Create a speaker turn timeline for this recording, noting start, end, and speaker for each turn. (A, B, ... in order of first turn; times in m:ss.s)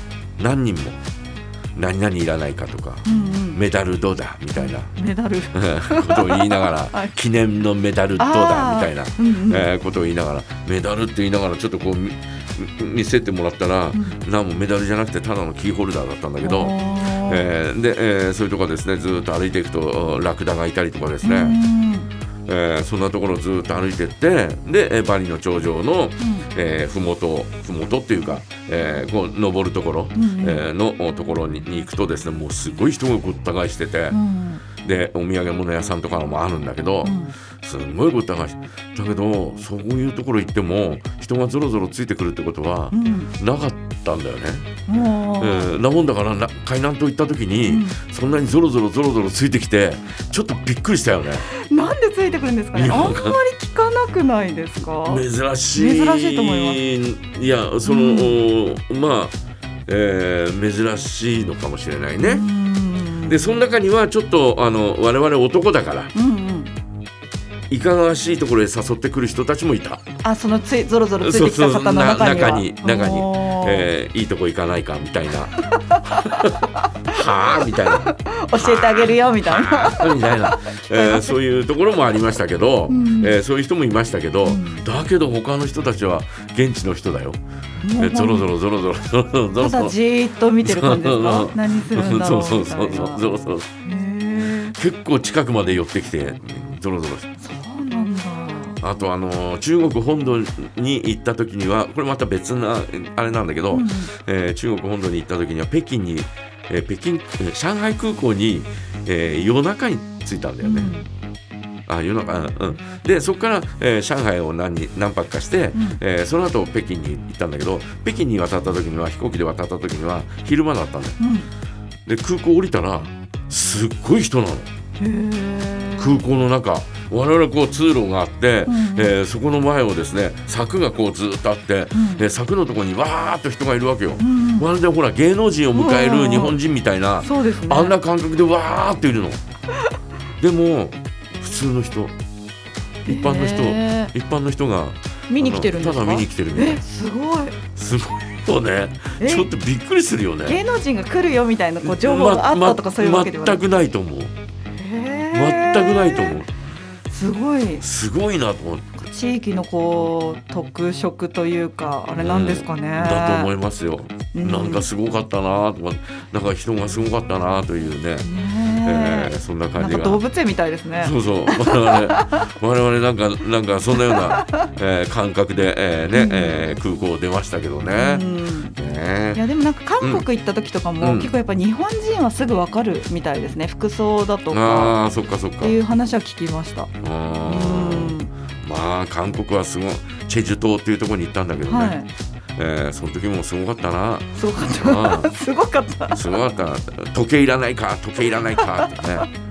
0:00.4-0:01.0 A
0:01.7-0:04.9 A
0:03.0-0:03.6 B
0:04.6-0:07.1 B
0:05.5-0:21.6 A
0:08.2-0:09.7 B
0:16.4-0:17.5 B
0:21.2-0:22.1 B
0:22.5-0:34.2 A
0:26.2-0:26.5 B
0:30.1-0:30.6 B
0:34.1-0:34.6 B
0:34.8-0:44.7 A
0:37.0-0:37.3 B
0:42.9-0:43.3 B
0:44.9-0:45.8 B
0:45.4-0:51.4 A
0:47.7-0:48.0 B
0:51.4-0:56.8 B
0:52.7-0:53.4 A
0:55.1-0:59.3 A
0:57.8-0:58.4 B
0:59.9-1:02.4 A
1:02.2-1:03.6 B
1:03.2-1:06.1 A
1:06.1-1:06.7 B
1:07.7-1:10.0 A
1:10.2-1:13.9 B
1:11.2-1:15.5 A
1:15.5-1:17.1 B
1:16.0-1:27.4 A
1:17.7-1:21.4 B
1:22.9-1:23.4 B
1:24.4-1:24.8 B
1:27.8-1:28.5 B
1:28.0-1:29.9 A
1:29.6-1:33.2 B
1:30.6-1:33.7 A
1:33.8-1:34.7 B
1:34.7-1:37.3 A
1:37.4-1:38.8 B
1:38.8-1:50.9 A
1:43.7-1:44.1 B
1:50.6-1:51.1 B
1:51.9-2:01.2 A
1:55.7-1:56.0 B
2:01.2-2:01.5 B
2:02.0-2:04.7 A
2:05.0-2:06.2 B
2:06.0-2:19.4 A
2:08.6-2:09.1 B
2:11.9-2:12.2 B
2:14.2-2:14.7 B
2:15.7-2:16.6 B
2:17.2-2:18.0 B
2:20.4-2:22.1 A
2:23.0-2:24.1 B
2:23.0-2:26.8 A
2:25.3-2:27.6 B
2:27.7-2:30.6 A
2:29.2-2:29.5 B
2:30.4-2:33.6 B
2:31.8-2:34.3 A
2:34.8-2:36.4 B
2:35.3-2:36.5 A
2:37.1-2:37.8 B
2:37.8-2:39.0 A
2:39.0-2:43.5 B
2:42.2-2:48.3 A
2:44.3-2:44.8 B
2:48.2-2:52.4 B
2:48.8-2:50.2 A
2:51.0-2:59.4 A
2:53.9-2:54.4 B
2:56.1-2:56.6 B
2:57.9-2:58.8 B
2:59.3-3:05.0 B
3:01.0-3:01.3 A
3:04.5-3:05.7 A
3:05.6-3:06.9 B
3:07.0-3:12.0 A
3:07.4-3:08.3 B
3:11.6-3:12.1 B
3:12.6-3:15.3 A
3:14.3-3:16.2 B
3:16.1-3:19.3 A
3:18.6-3:19.2 B